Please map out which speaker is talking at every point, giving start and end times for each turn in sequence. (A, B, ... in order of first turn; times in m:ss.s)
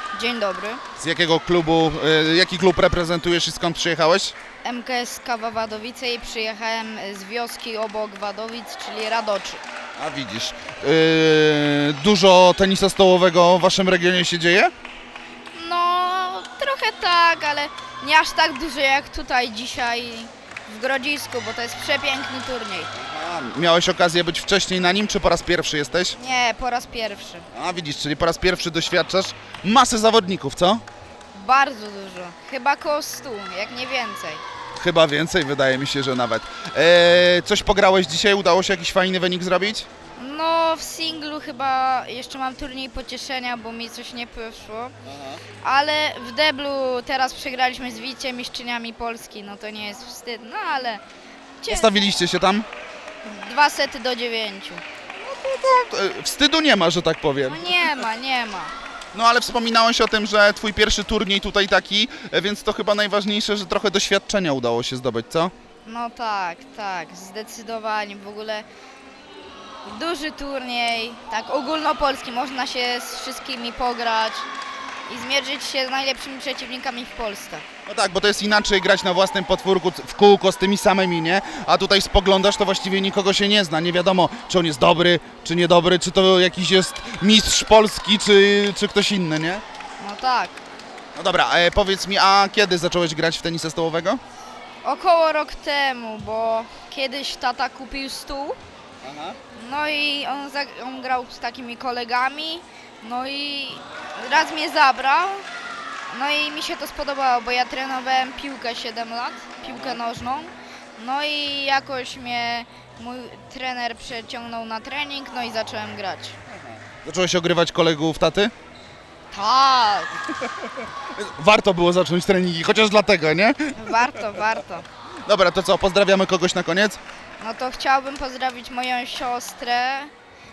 0:00.1-0:00.8 A
0:01.0-0:04.3 B
0:04.6-0:09.6 A
0:10.0-0:14.7 B
0:15.5-0:22.9 A
0:23.0-0:26.2 B
0:26.1-0:27.5 A
0:27.5-0:30.8 B
0:31.3-0:34.4 A
0:34.7-0:39.9 B
0:40.2-0:44.9 A
0:45.0-0:45.4 B
0:45.6-0:51.0 A
0:51.6-0:52.0 A
0:51.7-0:52.7 B
0:53.2-0:54.8 A
0:55.2-0:57.8 B
0:57.4-0:58.7 A
0:59.1-1:05.5 B
1:05.8-1:08.6 A
1:09.8-1:14.5 A
1:15.1-1:17.6 A
1:17.8-1:29.6 B
1:30.0-1:30.6 A
1:31.1-1:34.2 B
1:34.8-1:38.6 A
1:39.0-1:39.4 B
1:39.5-1:45.5 A
1:46.1-1:56.4 A
1:49.6-1:50.0 B
1:56.6-1:58.5 B
1:59.3-2:00.1 A
2:01.1-2:04.4 B
2:03.8-2:04.8 A
2:05.2-2:07.0 B
2:07.4-2:10.1 A